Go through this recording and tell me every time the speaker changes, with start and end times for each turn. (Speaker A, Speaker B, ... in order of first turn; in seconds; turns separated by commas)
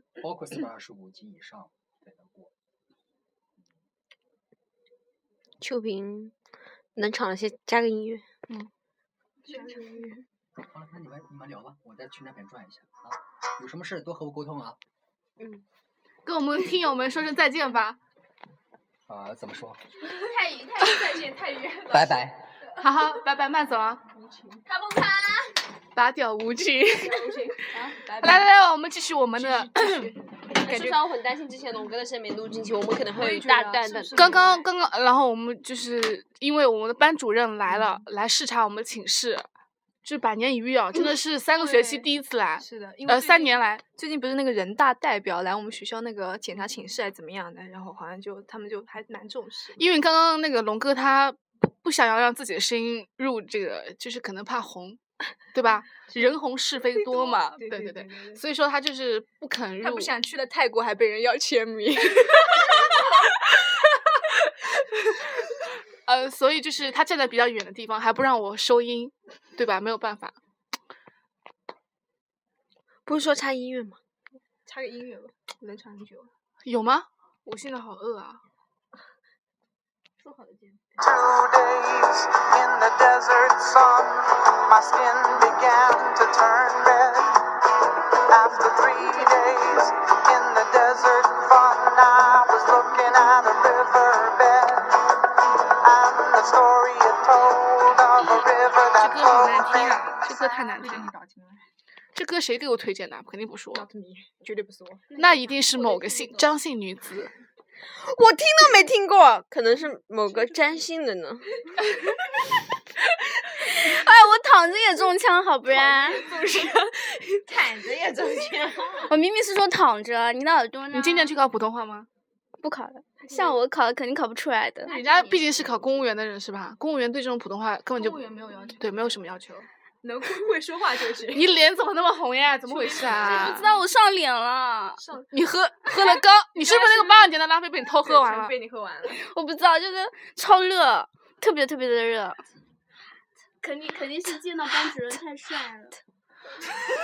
Speaker A: 0.2-2.5, Speaker B: 5.6-6.3, Speaker B: 7.0-8.2, Speaker C: 9.4-10.2, Speaker A: 10.5-14.8, Speaker D: 16.2-18.0, Speaker A: 19.1-19.8, Speaker C: 20.0-22.8, Speaker A: 21.9-22.6, Speaker D: 22.8-24.0, Speaker C: 24.1-24.7, Speaker B: 24.7-25.6, Speaker D: 25.9-27.4, Speaker C: 26.9-28.5, Speaker D: 28.1-30.1, Speaker C: 29.4-31.0, Speaker B: 30.5-34.4, Speaker C: 33.2-34.7, Speaker D: 34.1-39.5, Speaker D: 40.0-43.8, Speaker C: 41.5-49.9, Speaker D: 49.8-55.0, Speaker D: 55.5-60.1, Speaker C: 57.0-58.4, Speaker C: 59.8-65.3, Speaker D: 66.0-70.4, Speaker B: 73.1-74.0, Speaker C: 74.7-76.3, Speaker D: 76.7-78.4, Speaker C: 80.2-80.8, Speaker E: 81.0-87.5, Speaker E: 88.2-95.2, Speaker E: 95.7-99.8, Speaker D: 99.0-101.1, Speaker C: 99.8-101.6, Speaker D: 102.2-103.8, Speaker C: 103.7-106.5, Speaker D: 105.2-107.3, Speaker B: 108.0-111.5, Speaker F: 113.6-116.3, Speaker C: 115.8-116.4, Speaker B: 116.1-119.1, Speaker F: 119.0-121.3, Speaker D: 120.9-122.1, Speaker F: 122.6-125.0, Speaker C: 123.2-123.6, Speaker C: 124.8-125.9, Speaker D: 124.9-128.2, Speaker C: 128.0-129.2, Speaker D: 128.8-129.7, Speaker C: 130.0-131.5, Speaker D: 131.3-133.7, Speaker C: 132.7-133.8, Speaker F: 133.2-135.0, Speaker C: 135.0-135.3, Speaker D: 135.3-138.5, Speaker C: 136.6-137.3, Speaker C: 138.1-139.2, Speaker F: 139.1-142.4, Speaker F: 143.6-146.0